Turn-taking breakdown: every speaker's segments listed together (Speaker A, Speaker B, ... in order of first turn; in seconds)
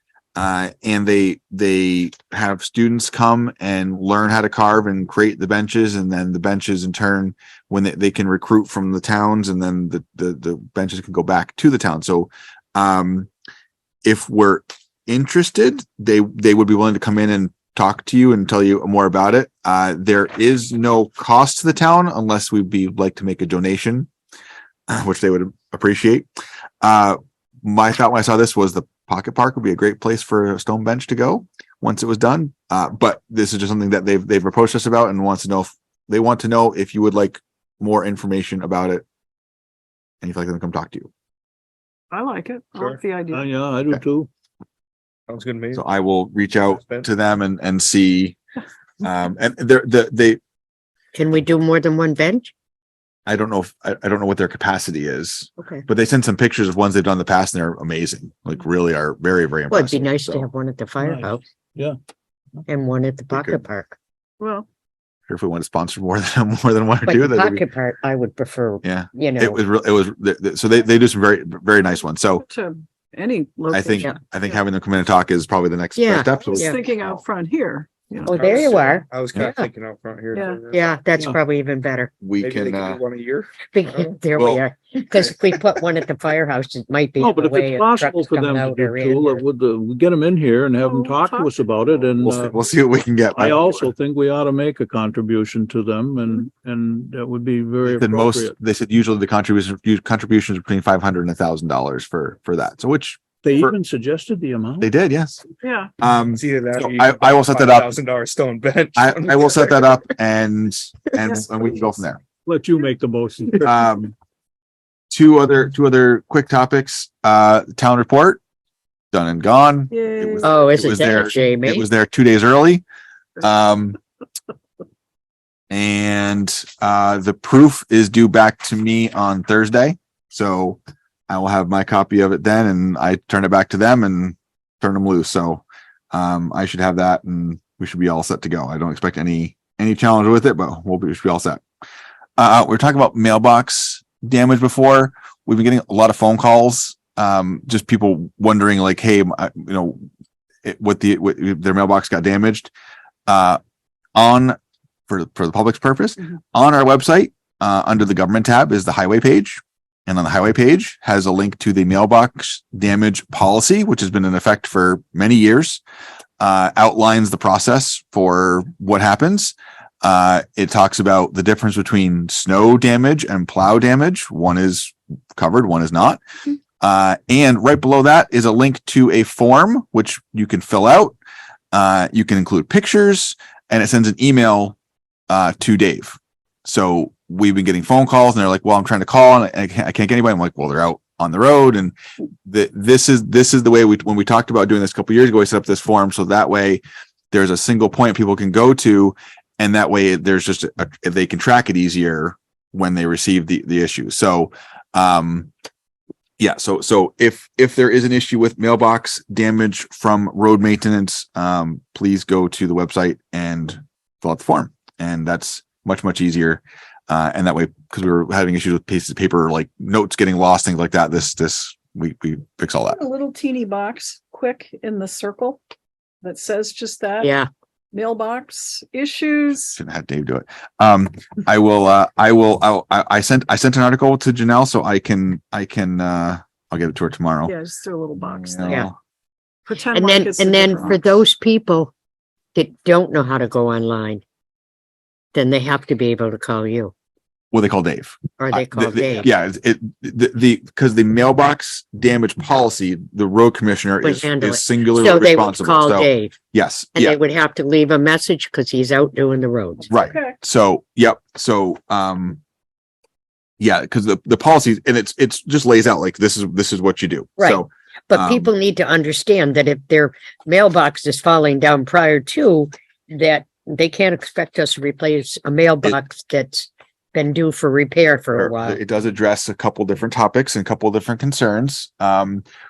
Speaker A: 0.3-13.3, 14.0-24.1, 24.9-26.3, 26.8-39.0, 40.2-41.1, 45.7-48.4, 49.0-50.4, 53.3-60.5, 63.3-63.6, 65.3-67.6, 68.8-72.4, 73.7-77.2, 82.2-83.0, 84.3-84.6, 92.2-93.9, 97.8-103.7, 104.8-105.4, 106.0-107.9, 109.0-112.2, 113.6-114.1, 115.1-118.4, 119.1-122.8, 123.4-124.0, 125.7-141.6, 142.4-150.1, 150.6-152.7, 153.3-153.6, 154.1-154.6, 155.1-165.8, 166.4-176.2, 176.8-181.1, 181.7-184.8, 185.3-205.5, 206.4-223.0, 229.8-237.5, 238.2-238.9, 247.5-257.2, 259.9-262.4, 263.6-268.5, 278.3-282.4
Speaker B: 42.1-43.5, 64.4-64.7, 72.3-74.3, 76.4-78.7, 80.3-80.6, 90.8-91.6, 105.6-105.9, 119.9-120.6, 222.9-225.6, 226.2-227.3, 227.9-229.8, 237.4-238.8, 239.7-241.0, 260.0-260.4
Speaker C: 43.3-44.3, 61.0-62.0, 87.2-92.5, 93.3-98.5, 103.4-104.9, 112.5-113.8
Speaker D: 45.3-45.8, 46.7-47.1, 78.3-81.0, 82.4-84.1, 106.3-109.9
Speaker E: 51.1-52.5, 55.6-55.8, 59.7-61.4, 62.7-64.0, 67.0-69.6, 76.0-76.7, 78.2-79.7, 80.7-82.1, 83.7-89.4, 120.4-121.8, 227.2-227.5, 239.9-241.9, 242.5-244.2, 245.3-246.9, 248.4-249.3, 254.0-256.4, 256.9-259.9, 267.4-278.8